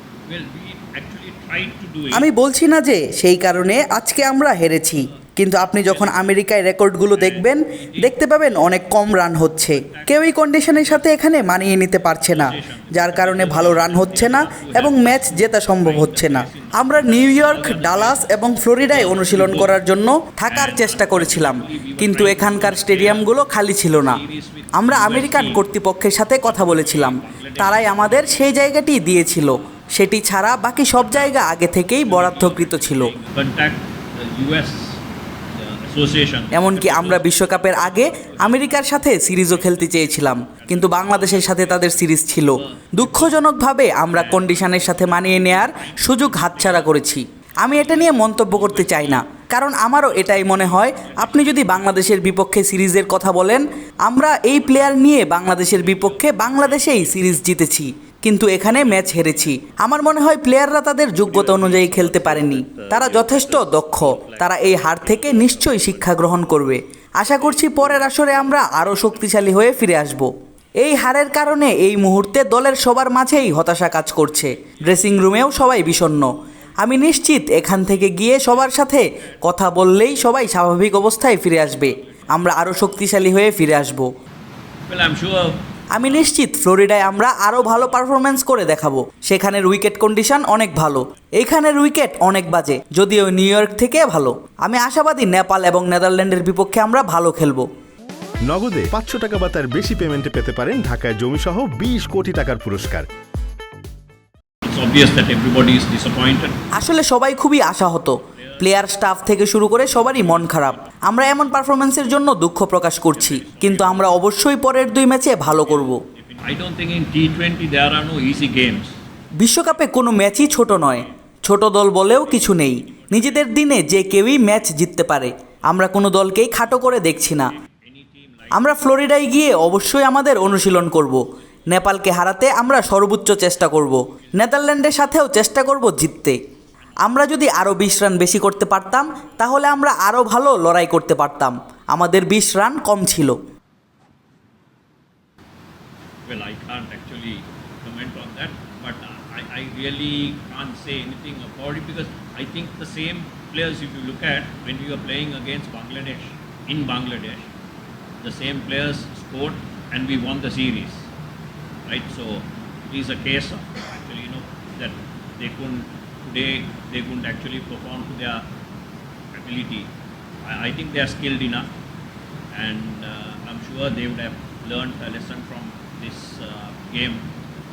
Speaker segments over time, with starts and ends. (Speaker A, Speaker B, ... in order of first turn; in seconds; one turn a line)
Speaker A: 0.2-2.3
Speaker B: 2.1-24.2
Speaker A: 4.9-6.3
Speaker A: 7.1-8.2
Speaker A: 9.7-11.3
Speaker A: 12.0-18.3
Speaker A: 18.9-19.8
Speaker A: 20.5-25.7
Speaker B: 24.7-33.1
Speaker A: 26.4-29.8
Speaker A: 30.9-35.0
Speaker A: 35.5-43.4
Speaker B: 36.5-84.1
Speaker A: 44.0-47.1
Speaker A: 47.7-49.3
Speaker A: 49.9-52.1
Speaker A: 54.5-57.6
Speaker A: 58.6-59.8
Speaker A: 61.2-66.5
Speaker A: 67.3-69.6
Speaker A: 74.2-79.6
Speaker A: 81.4-83.3
Speaker A: 84.8-85.7
Speaker B: 85.9-97.7
Speaker A: 87.0-88.4
Speaker C: 98.5-103.1
Speaker A: 104.6-106.6
Speaker B: 106.7-116.0
Speaker A: 108.3-109.0
Speaker A: 109.5-111.0
Speaker A: 113.1-114.2
Speaker A: 115.5-119.0
Speaker B: 119.4-127.5
Speaker A: 120.5-121.1
Speaker A: 122.0-123.6
Speaker A: 126.9-129.7
Speaker B: 128.5-136.4
Speaker A: 134.1-134.7
Speaker A: 136.8-137.3
Speaker B: 137.0-143.4
Speaker A: 146.2-157.5
Speaker A: 158.2-161.1
Speaker A: 161.8-168.5
Speaker A: 169.3-169.9
Speaker A: 170.4-171.7
Speaker A: 172.5-177.3